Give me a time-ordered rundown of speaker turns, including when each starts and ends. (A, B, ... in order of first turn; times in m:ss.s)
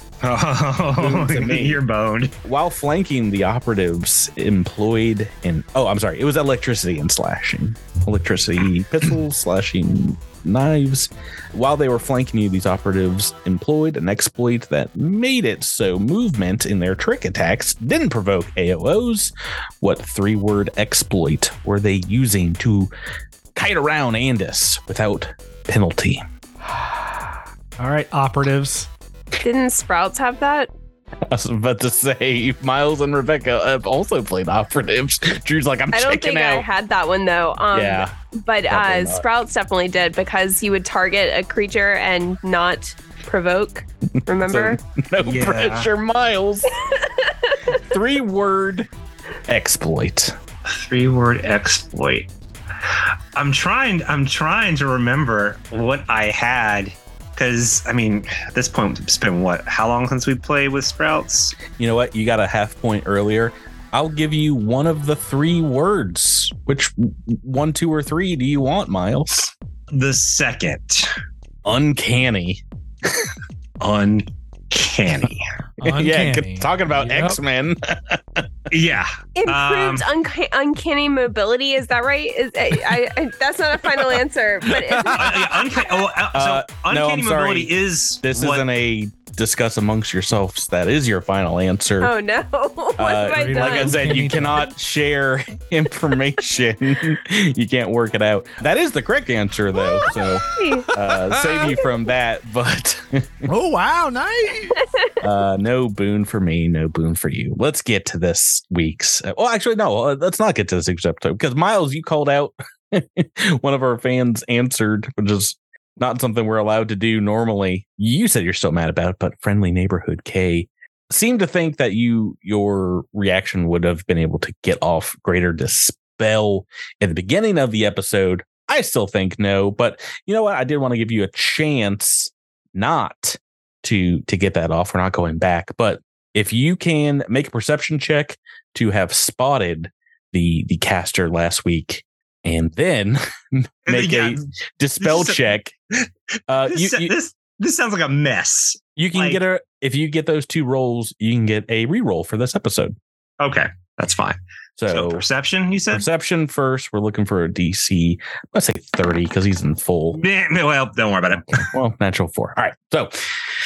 0:00.2-0:02.3 A
0:01.0-0:01.8 B
0:02.4-0:22.9 B
0:23.6-0:26.2 B
0:26.6-0:28.9 C
0:29.4-0:30.7 D
0:31.3-0:36.6 B
0:35.9-0:44.8 D
0:37.7-0:38.1 B
0:38.7-0:39.2 B
0:44.3-0:46.7 B
0:45.2-0:45.9 A
0:46.9-0:47.6 D
0:47.7-0:48.9 B
0:49.5-0:50.4 B
0:50.7-0:52.3 A
0:52.9-1:01.6 A
1:01.7-1:09.5 B
1:09.9-1:11.1 A
1:11.6-1:13.3 B
1:13.8-1:15.5 A
1:15.8-1:17.4 E
1:15.8-1:18.4 B
1:18.7-1:20.0 A
1:19.4-1:25.3 D
1:25.1-1:28.7 A
1:26.3-1:32.1 B
1:32.0-1:34.0 D
1:33.0-1:43.5 B
1:33.3-1:34.7 E
1:39.8-1:41.7 E
1:40.5-1:40.9 D
1:43.4-1:44.8 E
1:45.2-2:25.7 B
2:23.9-2:24.4 A
2:25.0-2:25.5 A
2:26.5-2:27.1 B
2:26.7-2:29.4 A
2:29.0-2:33.0 B
2:33.4-2:34.4 A
2:34.8-2:35.2 B
2:34.9-2:36.1 A
2:35.9-2:40.2 B
2:40.2-2:41.7 A
2:41.6-2:43.2 B